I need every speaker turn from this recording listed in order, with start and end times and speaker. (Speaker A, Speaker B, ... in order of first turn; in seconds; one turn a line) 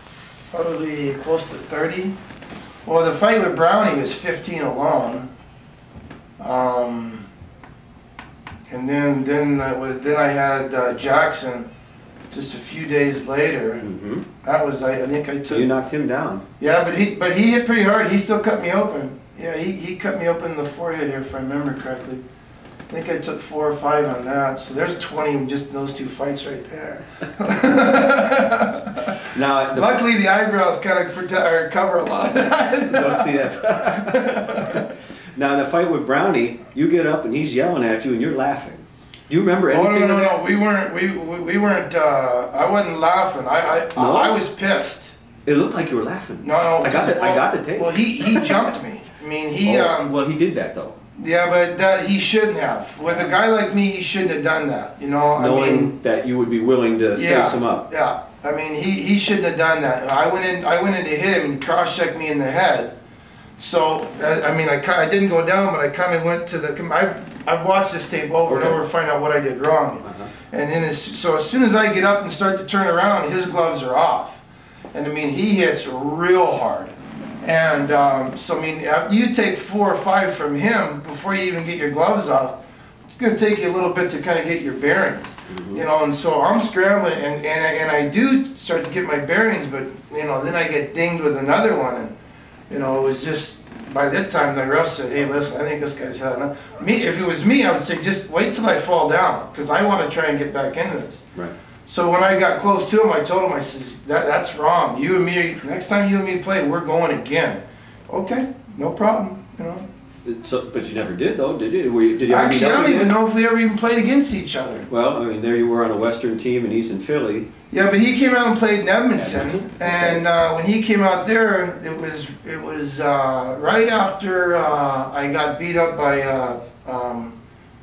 Speaker A: 0.5-2.1
Speaker A: 2.8-5.3
Speaker A: 6.4-7.3
Speaker A: 8.7-11.7
Speaker A: 12.3-13.8
Speaker B: 13.8-14.2
Speaker A: 14.4-15.7
Speaker B: 15.5-16.4
Speaker A: 16.6-22.2
Speaker A: 22.9-29.1
Speaker B: 29.3-30.0
Speaker A: 29.7-34.9
Speaker B: 32.9-40.4
Speaker A: 39.7-45.1
Speaker B: 43.9-44.4
Speaker B: 45.5-48.5
Speaker A: 46.4-50.1
Speaker B: 49.6-51.0
Speaker A: 51.1-55.9
Speaker B: 55.4-57.8
Speaker A: 57.1-62.9
Speaker A: 63.6-74.4
Speaker B: 68.5-68.8
Speaker B: 70.0-70.3
Speaker A: 74.9-82.6
Speaker A: 83.1-92.1
Speaker B: 85.5-85.8
Speaker A: 92.7-101.2
Speaker A: 101.8-109.8
Speaker B: 110.2-113.1
Speaker A: 112.3-114.9
Speaker B: 114.9-117.5
Speaker A: 117.7-127.4
Speaker B: 119.1-120.2